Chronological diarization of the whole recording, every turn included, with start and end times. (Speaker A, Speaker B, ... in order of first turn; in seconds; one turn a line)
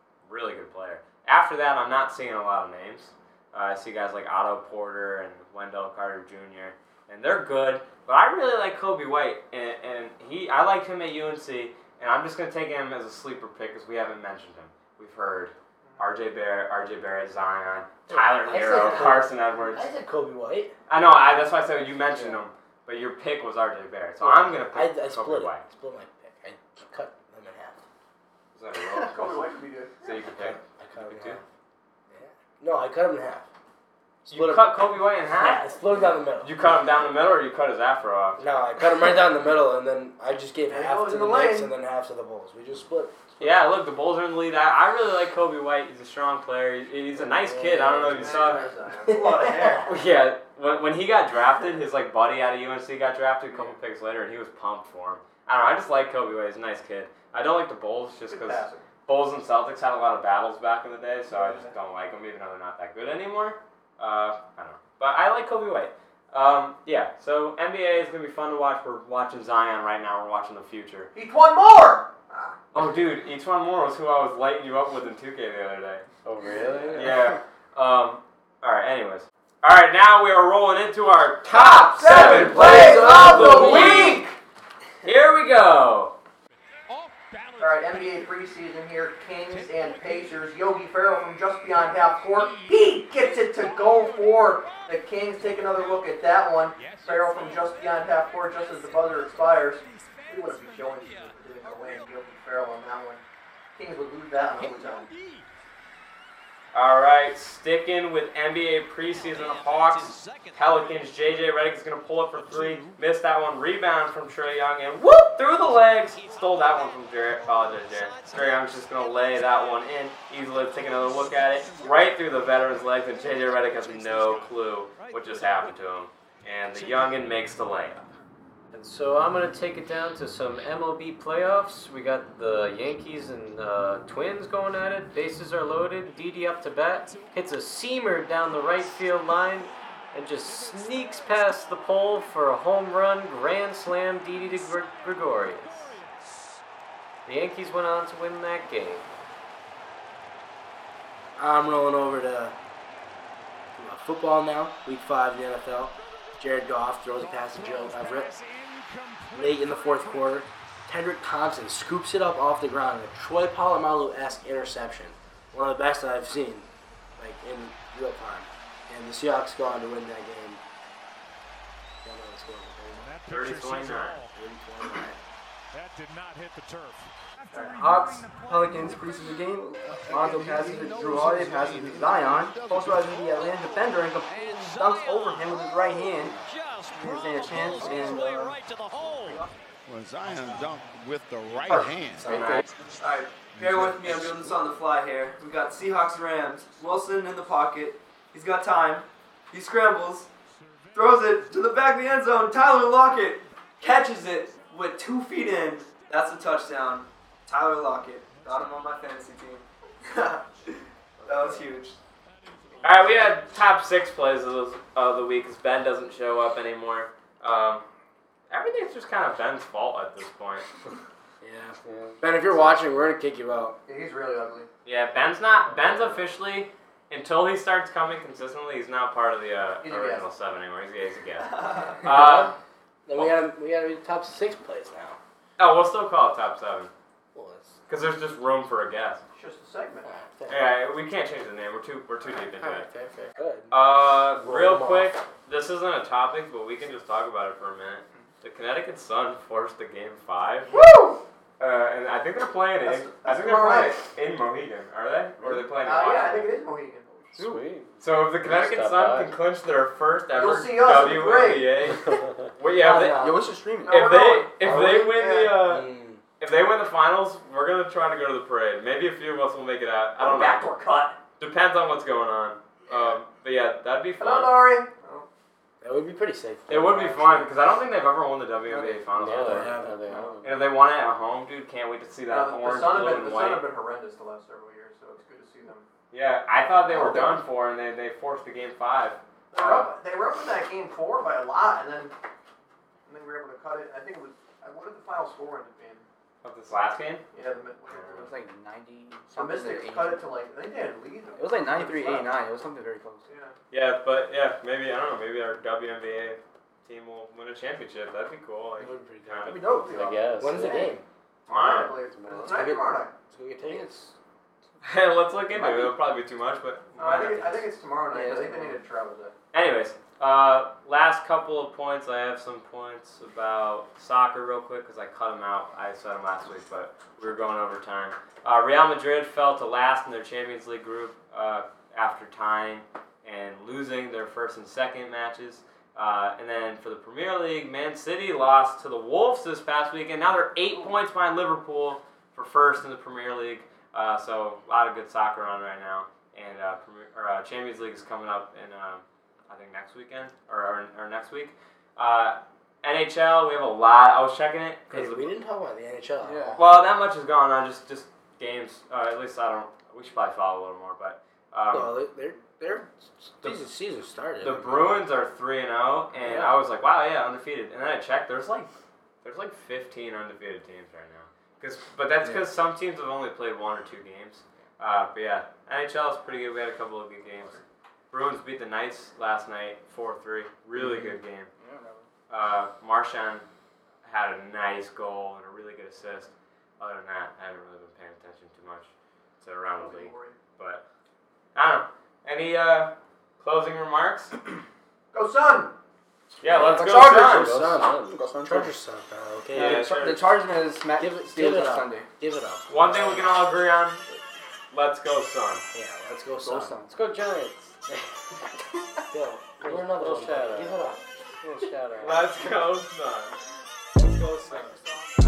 Speaker A: 0.2-19.9
Speaker B: 15.8-16.1
Speaker C: 18.1-20.7
Speaker A: 20.9-25.6
Speaker C: 22.1-22.4
Speaker C: 24.2-27.8
Speaker A: 28.5-31.4
Speaker B: 28.8-30.1
Speaker C: 30.3-31.4
Speaker C: 32.1-33.5
Speaker A: 34.2-35.6
Speaker C: 34.2-34.8
Speaker C: 35.3-36.6
Speaker A: 36.4-38.4
Speaker C: 38.4-43.5
Speaker B: 40.7-41.7
Speaker A: 43.4-48.7
Speaker C: 47.1-49.9
Speaker B: 48.1-49.9
Speaker A: 49.8-71.1
Speaker B: 58.3-58.8
Speaker B: 61.3-61.7
Speaker B: 71.1-72.6
Speaker A: 72.7-76.0
Speaker D: 76.2-77.3
Speaker A: 76.9-84.3
Speaker B: 81.5-84.3
Speaker C: 82.0-84.2
Speaker A: 85.0-86.1
Speaker E: 86.8-88.4
Speaker B: 87.6-103.2
Speaker E: 89.3-90.5
Speaker E: 91.5-102.2
Speaker B: 103.8-105.1
Speaker E: 104.5-105.5
Speaker A: 106.7-128.1
Speaker E: 109.1-111.8
Speaker E: 112.3-113.0
Speaker E: 115.6-119.9
Speaker E: 120.5-125.8
Speaker E: 126.7-127.3
Speaker D: 128.7-146.0
Speaker E: 136.7-142.6
Speaker E: 144.0-146.6
Speaker D: 147.2-149.1
Speaker C: 151.4-152.5
Speaker C: 153.8-158.3
Speaker E: 155.8-160.5
Speaker C: 159.3-166.7
Speaker C: 167.2-170.6
Speaker C: 172.0-173.1
Speaker E: 172.9-174.4
Speaker A: 173.3-174.2
Speaker C: 174.3-175.2
Speaker E: 175.7-192.3
Speaker B: 177.5-177.8
Speaker F: 177.8-186.4
Speaker F: 186.9-189.5
Speaker D: 192.2-192.5
Speaker F: 192.2-192.6
Speaker C: 192.3-192.6
Speaker G: 193.0-200.3
Speaker E: 193.6-193.9
Speaker E: 196.6-197.1
Speaker E: 200.5-202.1
Speaker G: 200.9-212.0
Speaker E: 203.1-206.7
Speaker E: 208.2-209.1
Speaker E: 212.3-213.6
Speaker A: 212.8-217.8
Speaker A: 218.5-220.7
Speaker C: 221.4-223.8
Speaker D: 221.8-222.2
Speaker B: 223.8-224.7
Speaker A: 224.8-232.5
Speaker B: 229.8-230.2
Speaker C: 232.0-232.5
Speaker C: 233.1-235.2
Speaker A: 235.6-236.9
Speaker C: 237.3-237.8
Speaker A: 237.9-239.2
Speaker B: 239.3-240.1
Speaker C: 240.0-240.8
Speaker A: 240.5-242.8
Speaker C: 242.2-245.1
Speaker A: 243.7-250.7
Speaker B: 250.7-251.2
Speaker A: 251.6-256.5
Speaker B: 252.8-254.0
Speaker F: 255.4-255.7
Speaker B: 255.8-257.2
Speaker D: 257.3-259.4
Speaker F: 257.4-257.6
Speaker A: 258.0-263.3
Speaker B: 260.3-261.8
Speaker D: 262.1-262.5
Speaker C: 262.7-263.5
Speaker F: 263.1-264.1
Speaker B: 263.8-265.6
Speaker A: 263.9-270.8
Speaker C: 264.6-266.2
Speaker B: 270.2-271.2
Speaker A: 271.4-274.7
Speaker B: 274.2-275.3
Speaker C: 275.8-277.5
Speaker A: 276.7-279.8
Speaker F: 278.7-279.1
Speaker D: 279.1-280.5
Speaker C: 279.4-280.2
Speaker A: 280.4-283.6
Speaker B: 282.3-285.9
Speaker A: 286.1-289.9
Speaker B: 286.9-287.3
Speaker B: 289.5-292.1
Speaker B: 293.1-296.1
Speaker A: 296.4-297.2
Speaker B: 297.3-298.3
Speaker F: 298.0-300.2
Speaker B: 299.3-302.3
Speaker F: 301.4-303.2
Speaker B: 303.3-303.5
Speaker A: 303.7-309.8
Speaker C: 308.8-309.6
Speaker F: 309.4-310.1
Speaker B: 309.6-310.9
Speaker D: 309.9-310.9
Speaker C: 310.4-311.0
Speaker B: 311.5-313.1
Speaker A: 311.5-311.9
Speaker D: 312.1-312.6
Speaker C: 312.4-314.1
Speaker F: 313.6-314.1
Speaker A: 314.8-317.4
Speaker F: 315.5-315.9
Speaker B: 317.0-319.3
Speaker F: 318.1-318.8
Speaker A: 319.5-355.3
Speaker C: 354.9-356.7
Speaker F: 356.2-356.6
Speaker A: 356.6-361.9
Speaker C: 361.7-365.1
Speaker A: 364.4-368.7
Speaker C: 366.1-366.6
Speaker A: 369.2-377.6
Speaker A: 378.1-381.5
Speaker C: 380.8-381.1
Speaker F: 381.6-382.1
Speaker A: 382.3-383.4
Speaker A: 384.0-390.8
Speaker B: 389.8-390.4
Speaker A: 391.5-394.4
Speaker B: 395.1-395.7
Speaker C: 396.4-399.9
Speaker A: 396.4-397.5
Speaker D: 396.6-398.3
Speaker F: 398.1-398.7
Speaker F: 399.5-402.1
Speaker A: 399.5-400.3
Speaker C: 401.0-403.5
Speaker A: 402.7-404.0
Speaker A: 404.7-405.6
Speaker C: 405.7-406.7
Speaker F: 406.4-407.0
Speaker D: 406.9-407.9
Speaker C: 409.1-411.0
Speaker D: 409.6-410.9
Speaker D: 411.4-412.3
Speaker A: 412.0-413.4
Speaker C: 413.9-414.8